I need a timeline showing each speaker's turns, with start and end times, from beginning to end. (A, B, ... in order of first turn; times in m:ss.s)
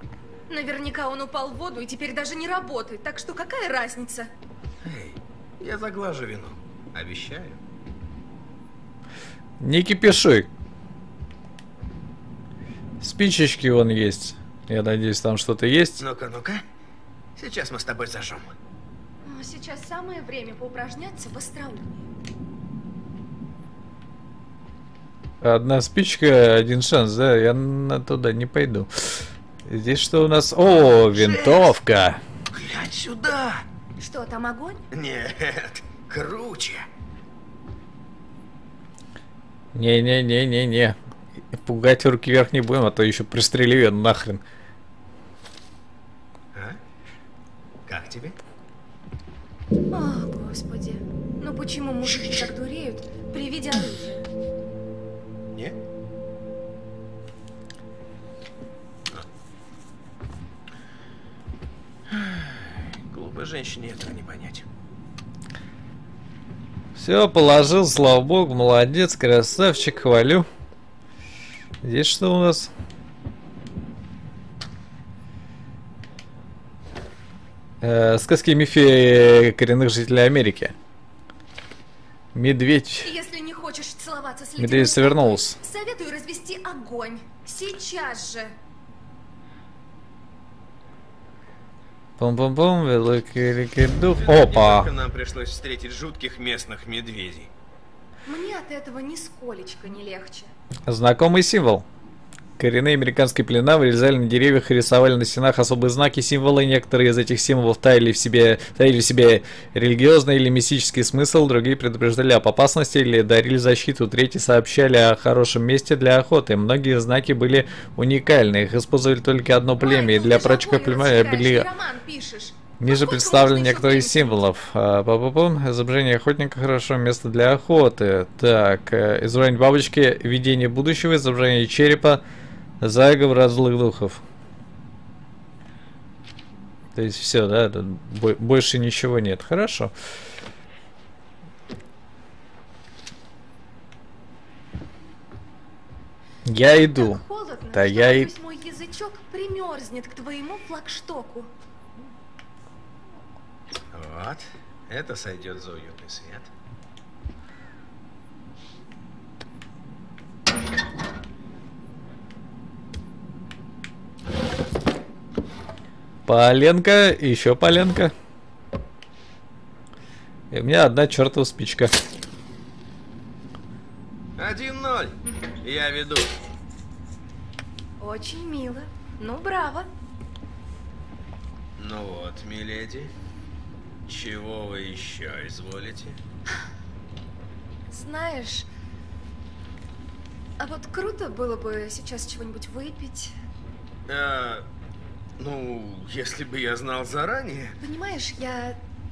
0:00.5-0:04.3 A
0:04.8-0:07.6 B
0:09.6-0:10.5 C
0:13.0-0:16.0 C
0:16.0-0:16.6 B
0:17.4-0:18.5 B
0:19.2-0:22.0 A
0:25.4-0:32.2 C
0:31.1-0:31.7 B
0:32.5-0:33.6 B
0:34.0-0:34.8 A
0:34.9-0:36.8 B
0:39.7-0:41.0 C
0:41.5-0:44.4 C
0:46.5-0:46.8 B
0:47.9-0:48.4 B
0:49.9-0:54.2 A
1:02.1-1:04.6 B
1:07.0-1:10.4 C
1:11.8-1:12.7 C
1:17.8-1:20.7 C
1:22.3-1:23.1 C
1:23.0-1:28.5 A
1:24.6-1:25.6 C
1:32.2-1:34.9 C
1:34.1-1:37.5 B
1:38.2-1:40.5 A
1:40.9-1:41.8 C
1:42.6-2:01.7 C
1:59.8-2:04.4 A
2:02.8-2:12.2 C
2:12.8-2:14.2 C
2:16.9-2:19.9 C
2:26.4-2:27.2 C
2:26.7-2:31.5 A
2:27.7-2:28.3 C
2:33.9-2:36.5 B
2:46.3-2:48.1 C
2:50.5-2:51.9 C
2:54.4-2:56.3 B
2:58.0-2:59.9 A
3:01.8-3:03.1 B
3:04.0-3:06.2 B
3:07.9-3:08.7 A
3:10.6-3:13.3 A
3:14.1-3:14.6 B
3:15.4-3:17.8 B
3:17.8-3:18.8 A